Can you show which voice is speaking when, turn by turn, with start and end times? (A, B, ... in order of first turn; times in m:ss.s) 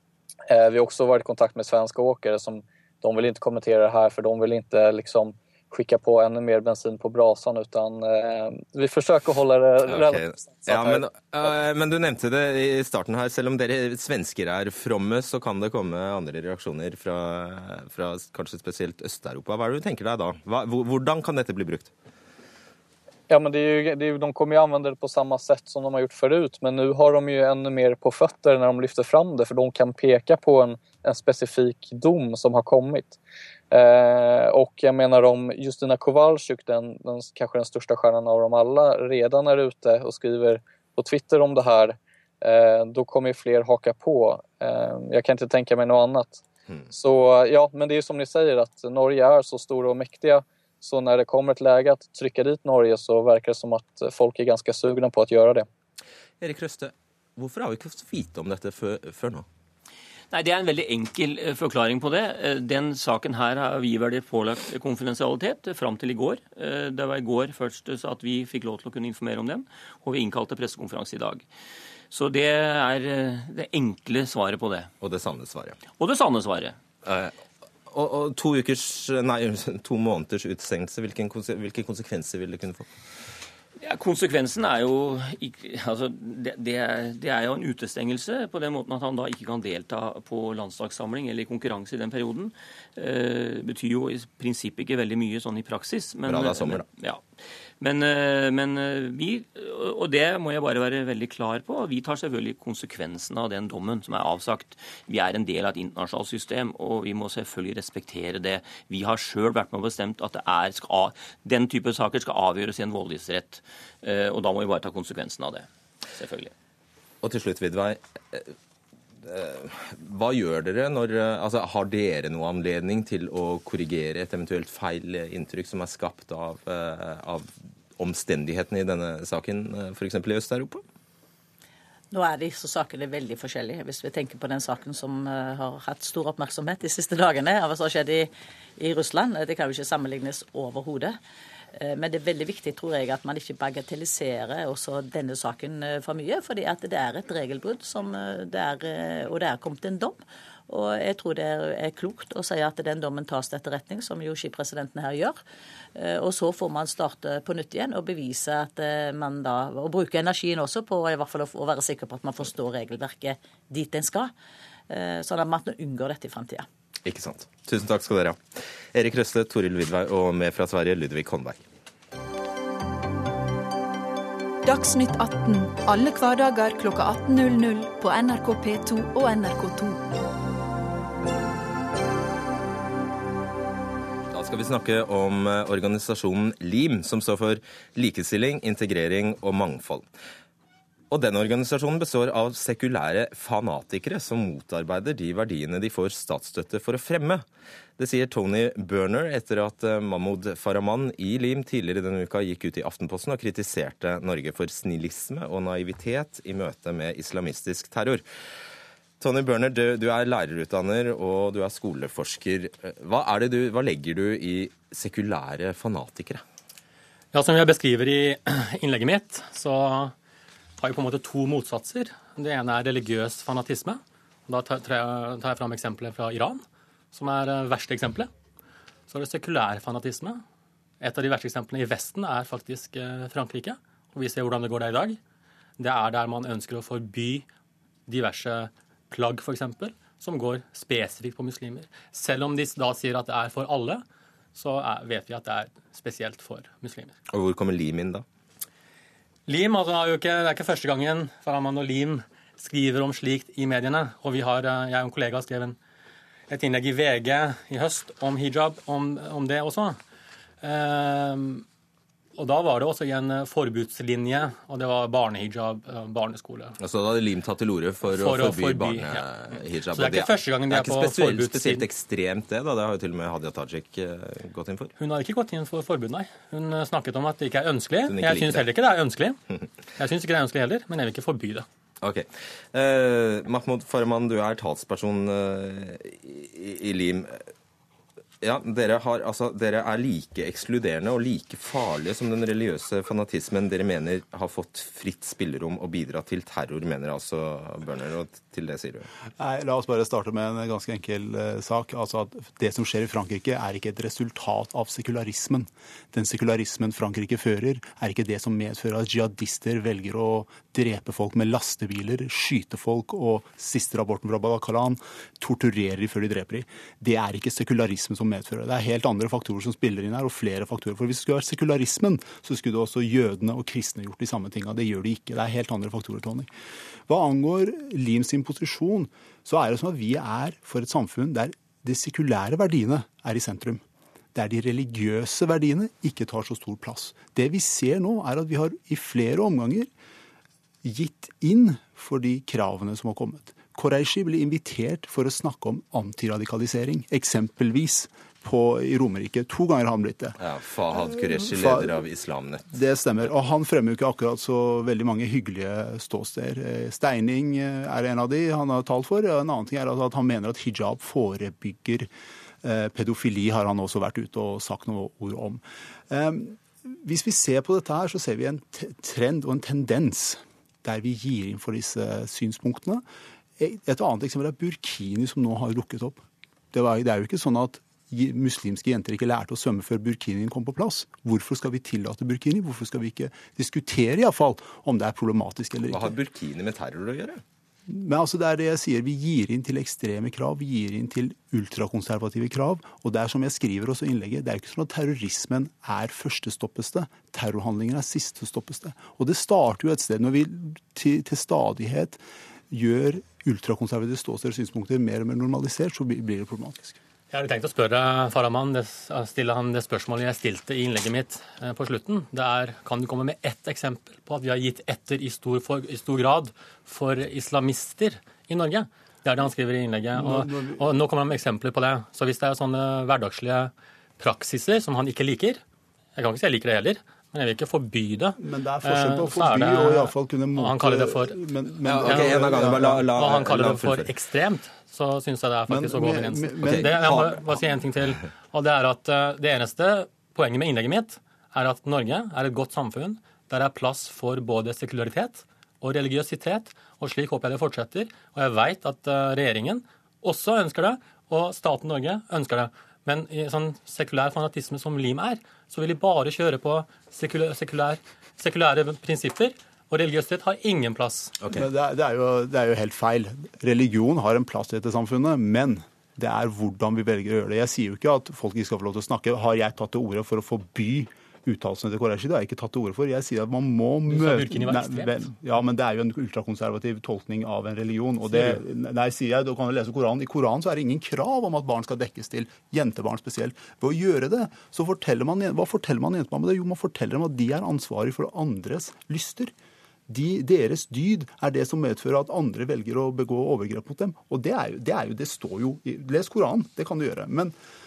0:00.5-0:11.0 A
0:09.9-0:21.9 B
0:23.3-0:33.2 A
0:33.7-0:55.7 A
0:56.4-0:59.5 B
1:00.3-1:11.5 C
1:12.1-1:14.9 C
1:15.0-1:15.8 B
1:16.0-1:16.8 C
1:17.0-1:17.4 B
1:17.9-1:22.9 B
1:23.8-1:37.2 C
1:36.3-1:36.8 B
1:37.8-1:56.5 C
1:57.2-1:58.5 B
1:59.2-2:10.8 B
2:12.1-2:21.2 D
2:21.8-2:35.4 D
2:36.0-2:44.3 D
2:44.9-2:46.7 D
2:47.0-2:48.4 B
2:48.9-2:51.6 B
2:54.7-3:00.0 E
3:04.3-3:10.1 B
3:11.1-3:17.4 B
3:18.0-3:28.2 B
3:29.2-3:36.4 B
3:37.3-3:40.1 F
3:40.8-3:48.3 F
3:49.1-3:50.4 F
3:51.0-3:55.2 F
3:55.8-3:57.4 F
3:58.1-4:04.0 F
4:04.6-4:07.2 F
4:07.3-4:08.2 B
4:09.5-4:15.8 F
4:16.5-4:20.0 F
4:20.6-4:21.6 F
4:22.4-4:26.8 F
4:26.8-4:34.9 B
4:28.1-4:29.2 F
4:29.9-4:31.9 F
4:35.0-4:39.4 F
4:38.1-4:38.7 B
4:40.0-4:41.6 F
4:42.0-4:47.5 B
4:48.4-4:59.1 B
4:59.4-5:26.5 G
5:27.1-5:33.8 G
5:34.4-5:39.9 G
5:40.8-5:50.4 G
5:50.4-5:52.7 B
5:51.0-5:52.0 G
5:52.7-6:02.1 G
6:02.6-6:13.0 G
6:13.6-6:26.1 G
6:25.9-6:27.4 B
6:27.9-6:47.0 G
6:47.3-7:05.6 F
7:00.2-7:00.9 G
7:06.2-7:11.4 F
7:08.4-7:13.1 G
7:11.9-7:14.1 B
7:12.0-7:12.5 F
7:13.1-7:41.4 F
7:15.7-7:17.8 G
7:16.7-7:16.9 B
7:41.5-8:09.5 G
7:54.1-7:55.2 F
7:58.3-7:58.6 F
8:10.1-8:17.5 G